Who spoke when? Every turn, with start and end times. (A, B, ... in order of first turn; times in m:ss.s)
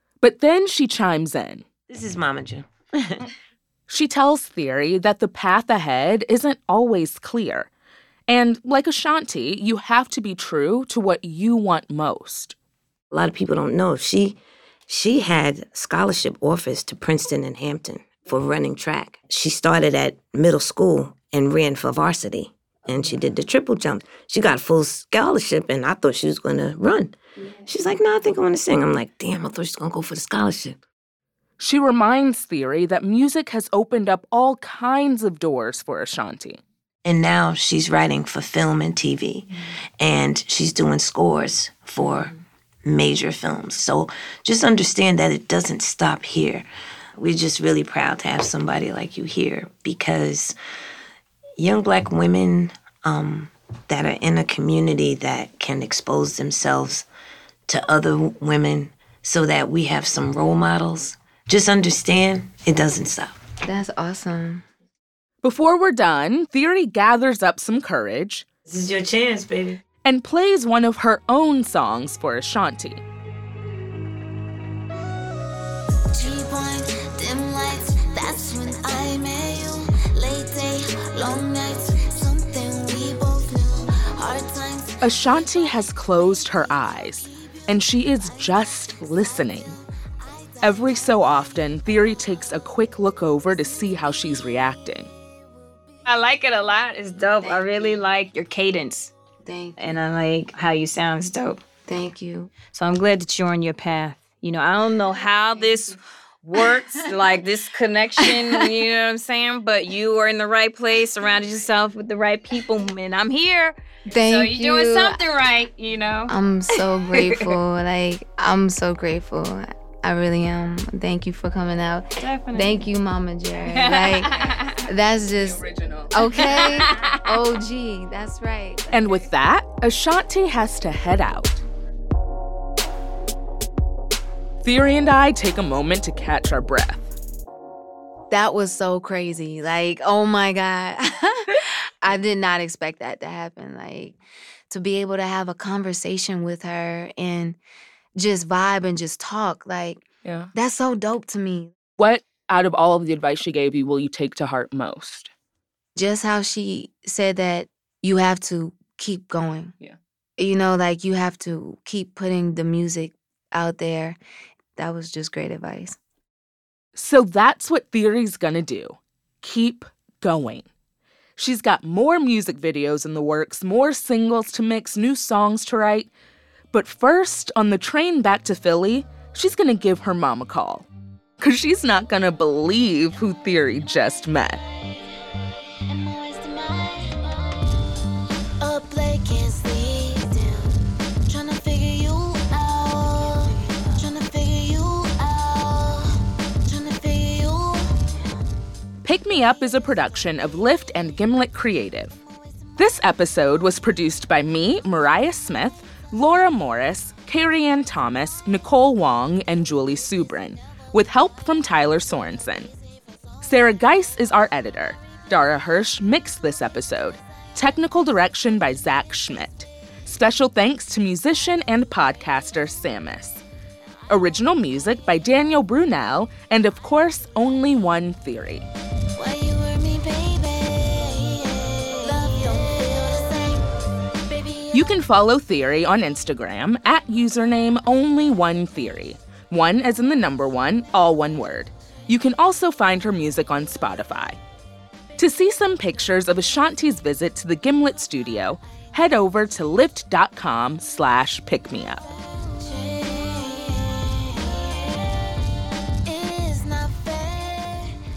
0:00.2-0:01.6 A
0:01.9-0:03.3 B
0:03.9-0:07.7 A
0:08.3-0:12.6 A
0:13.1-0:27.2 B
0:27.7-0:30.8 B
0:31.6-0:36.6 A
0:37.0-0:39.5 B
0:40.0-0:50.6 B
0:51.6-0:57.1 B
0:57.7-1:03.4 B
1:03.6-1:04.6 C
1:05.4-1:08.5 A
1:08.7-1:09.8 B
1:10.0-1:13.0 A
1:16.1-1:25.0 D
1:25.0-1:29.7 A
1:28.2-1:31.0 D
1:30.6-1:35.1 A
1:36.0-1:39.1 E
1:39.4-1:39.8 C
1:39.8-1:41.6 E
1:41.9-1:42.5 C
1:42.7-1:57.6 E
1:54.1-1:55.2 C
1:56.3-2:08.9 C
2:02.2-2:02.9 E
2:05.4-2:07.0 A
2:08.9-2:11.6 A
2:14.6-2:17.1 A
2:18.3-2:24.2 C
2:24.7-2:27.6 C
2:28.2-2:30.0 C
2:30.2-2:30.5 A
2:30.5-2:31.7 C
2:32.0-2:35.3 A
2:36.0-2:39.7 C
2:40.4-2:44.2 C
2:44.8-2:46.0 C
2:47.0-2:50.7 A
2:51.4-2:56.1 A
2:56.7-3:00.9 A
3:01.4-3:04.6 A
3:05.9-3:07.8 D
3:08.6-3:18.1 D
3:19.0-3:22.2 A
3:22.8-3:32.7 A
3:33.4-3:43.4 A
3:44.1-3:48.7 A
3:49.2-3:53.6 D
3:54.3-3:54.9 D
3:54.7-4:04.4 A
4:05.2-4:12.1 A
4:12.5-4:15.4 D
4:16.0-4:17.9 D